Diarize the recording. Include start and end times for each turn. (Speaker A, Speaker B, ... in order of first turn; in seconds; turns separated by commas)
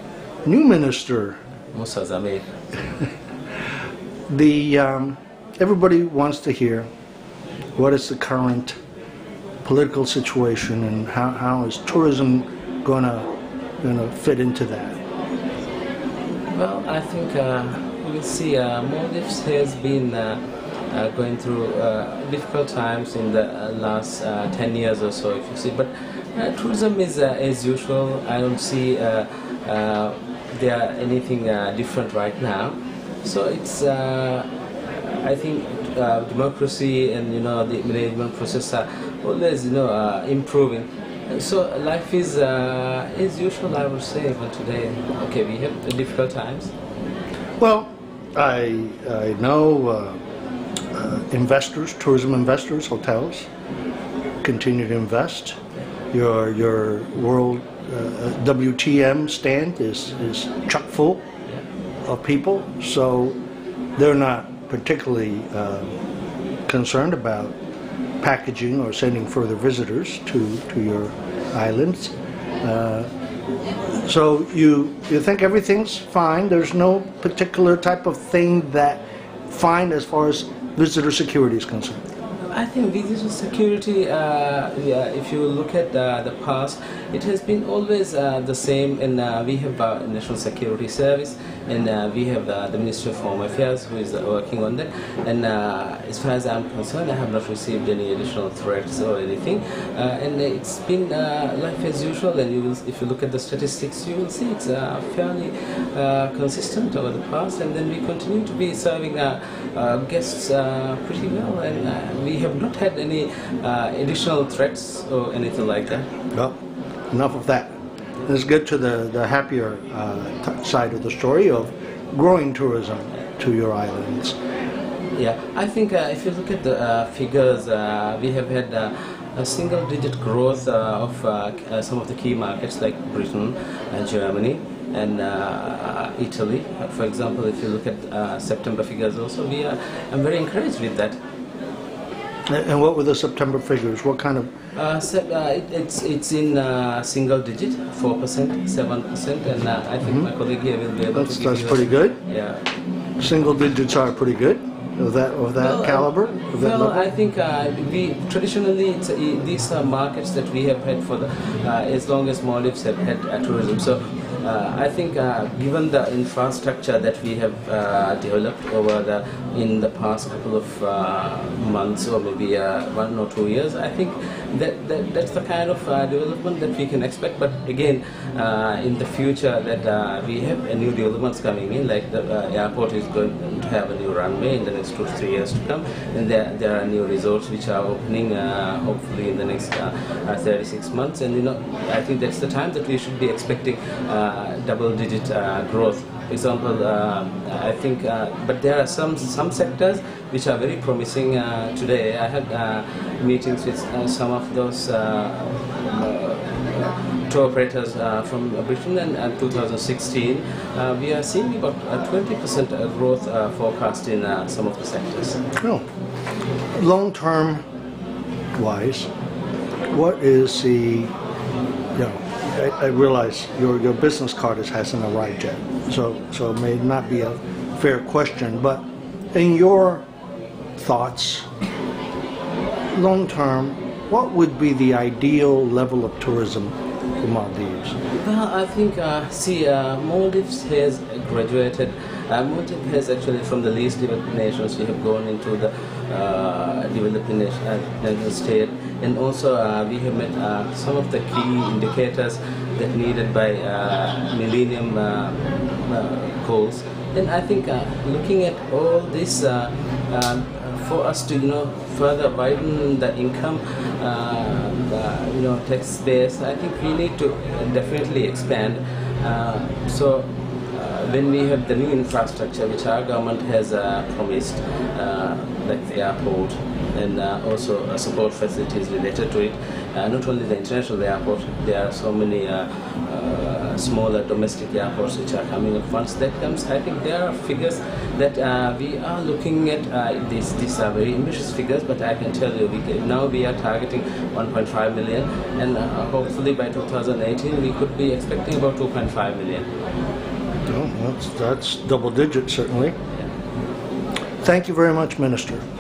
Speaker A: 0.5-1.4, Speaker B: 1.7-2.5, Speaker A: 4.3-6.9, Speaker A: 7.8-8.7, Speaker A: 9.6-13.3, Speaker A: 13.8-15.0, Speaker B: 16.5-46.7, Speaker A: 47.6-50.2, Speaker A: 50.9-53.5, Speaker A: 54.4-55.6, Speaker A: 56.1-61.2, Speaker A: 62.0-63.4, Speaker A: 64.0-66.0, Speaker A: 66.7-67.5, Speaker A: 68.2-73.1, Speaker A: 73.9-82.0, Speaker B: 82.5-116.1, Speaker A: 117.1-117.7, Speaker A: 118.2-124.3, Speaker B: 125.2-141.2, Speaker A: 142.5-144.5, Speaker B: 144.8-152.6, Speaker A: 151.1-152.2, Speaker A: 153.2-157.1, Speaker B: 155.6-215.4, Speaker A: 215.6-215.8, Speaker A: 216.8-217.6, Speaker A: 218.6-219.1, Speaker A: 219.9-221.1, Speaker A: 221.9-228.8, Speaker A: 229.3-230.0, Speaker A: 230.8-231.5, Speaker A: 232.9-237.9, Speaker B: 238.1-299.7, Speaker A: 300.7-303.0, Speaker A: 304.4-305.6